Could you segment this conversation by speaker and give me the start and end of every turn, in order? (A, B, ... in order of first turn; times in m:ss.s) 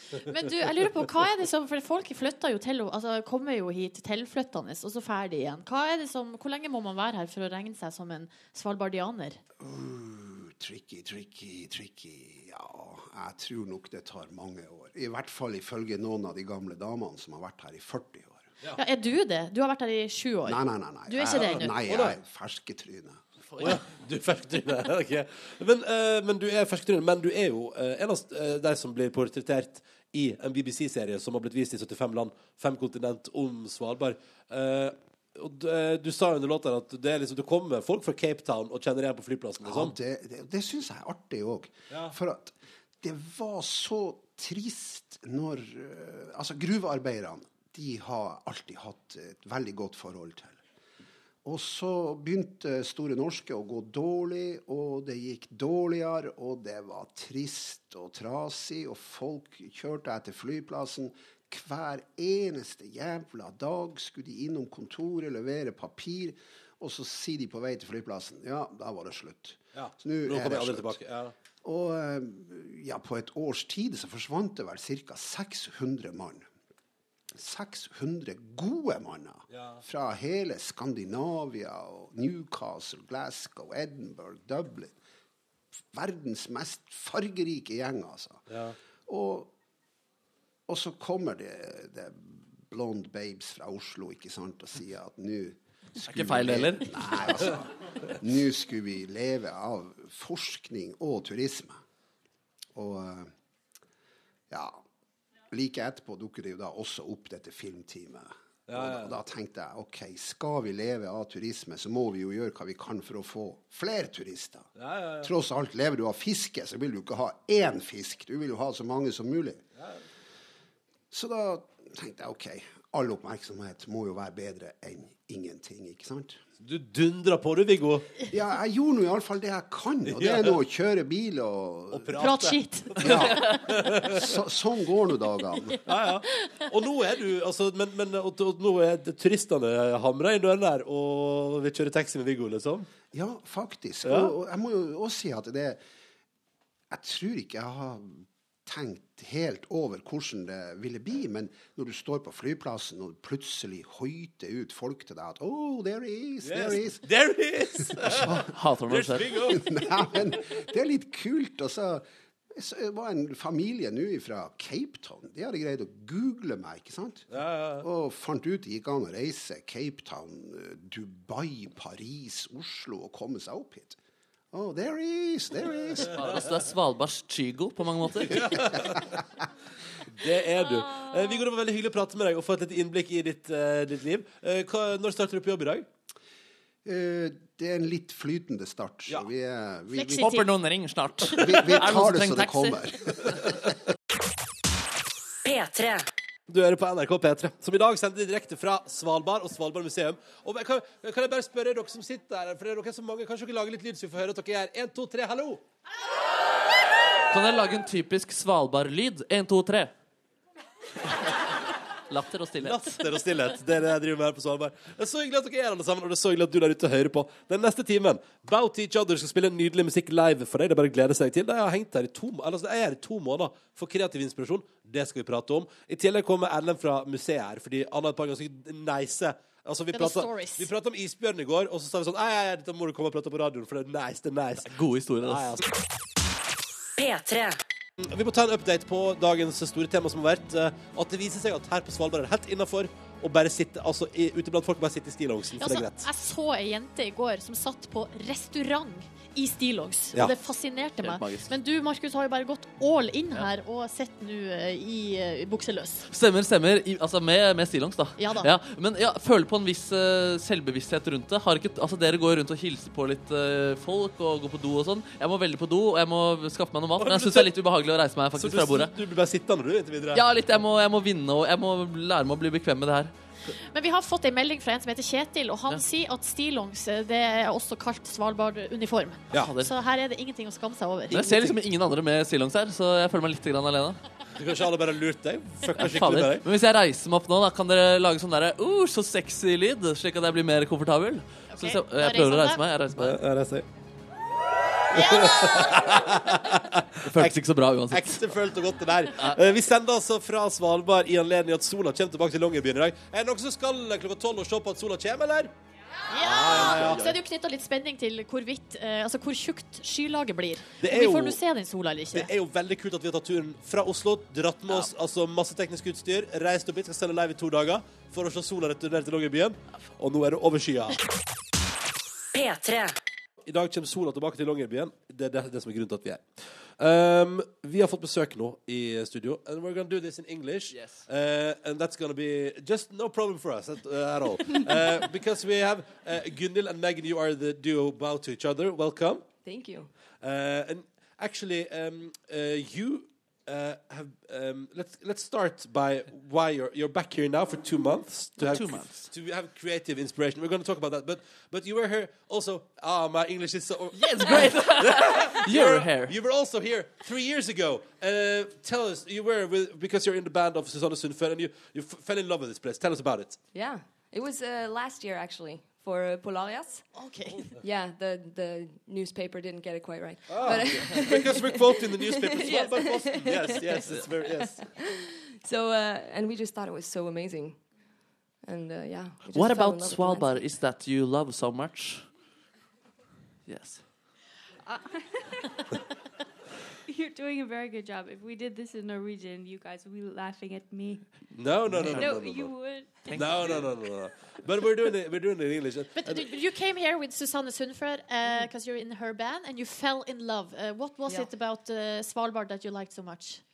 0:00.2-0:09.4 A
0:09.6-0:18.5 B
0:18.8-0:21.8 A
0:20.5-0:23.2 B
0:21.6-0:22.2 C
0:23.6-0:40.0 C
0:39.6-0:50.6 B
0:51.4-1:11.0 B
1:09.8-1:11.3 C
1:11.6-1:16.5 B
1:17.4-1:25.0 B
1:19.5-1:19.8 C
1:25.9-1:28.4 B
1:28.5-1:28.8 C
1:29.1-1:29.5 B
1:30.7-1:41.8 B
1:36.0-1:37.3 D
1:42.8-1:43.3 B
1:44.5-1:44.8 B
1:45.5-1:54.7 B
1:48.7-1:49.2 C
1:54.8-1:55.3 C
1:55.2-1:59.6 B
2:01.1-2:06.4 B
2:06.6-2:08.1 C
2:08.3-2:12.2 B
2:10.1-2:10.6 C
2:11.9-2:14.3 C
2:12.2-2:13.6 A
2:13.0-2:15.8 B
2:15.8-2:22.9 C
2:16.3-2:16.6 A
2:23.1-2:25.8 B
2:24.0-2:24.3 C
2:26.9-2:37.1 B
2:36.4-2:40.2 C
2:37.9-2:38.5 B
2:38.4-2:39.5 D
2:39.5-2:47.3 B
2:47.3-2:47.9 C
2:47.8-2:54.0 B
2:54.5-2:56.3 B
2:56.1-2:58.6 D
2:58.2-2:59.1 C
2:58.7-2:59.0 B
3:00.1-3:05.9 C
3:06.8-3:10.4 B
3:09.9-3:10.5 A
3:10.2-3:12.9 D
3:11.3-3:13.7 B
3:15.4-3:16.1 E
3:16.5-3:25.6 C
3:27.3-3:29.9 D
3:32.1-3:33.0 D
3:32.6-3:55.6 C
3:49.9-3:50.7 A
3:54.6-3:55.6 D
3:57.0-3:57.6 E
3:58.0-4:06.1 C
4:05.6-4:16.1 A
4:11.0-4:11.5 D
4:16.1-4:28.9 D
4:18.2-4:18.5 A
4:27.0-4:27.5 C
4:28.4-4:30.2 C
4:30.1-4:33.1 D
4:33.7-4:41.2 A
4:39.3-4:39.7 D
4:41.1-4:41.6 C
4:41.1-4:44.0 D
4:44.4-4:46.5 C
4:45.8-4:53.2 D
4:51.5-4:52.6 A
4:53.0-4:53.7 C
4:54.9-4:55.9 A
4:54.9-5:05.5 C
4:57.0-4:58.3 D
5:06.1-5:12.3 A
5:06.2-5:07.1 C
5:06.4-5:07.2 D
5:10.8-5:11.4 C
5:12.1-5:21.0 C
5:22.3-5:23.0 E
5:23.4-5:26.3 C
5:26.8-5:39.3 C
5:30.7-5:31.1 D
5:39.4-5:39.9 F
5:40.2-6:03.4 C
5:48.4-5:49.1 D
5:54.0-5:56.2 D
6:03.5-6:06.8 F
6:07.0-6:07.5 A
6:07.6-6:13.9 F
6:10.3-6:14.7 C
6:15.4-6:17.6 F
6:18.4-6:20.5 F
6:19.3-6:22.1 D
6:23.5-6:23.8 D
6:24.7-6:25.7 G
6:26.9-6:31.1 G
6:31.3-6:36.3 C
6:31.8-6:32.1 D
6:31.8-6:33.4 G
6:33.1-6:33.7 D
6:36.0-6:43.4 A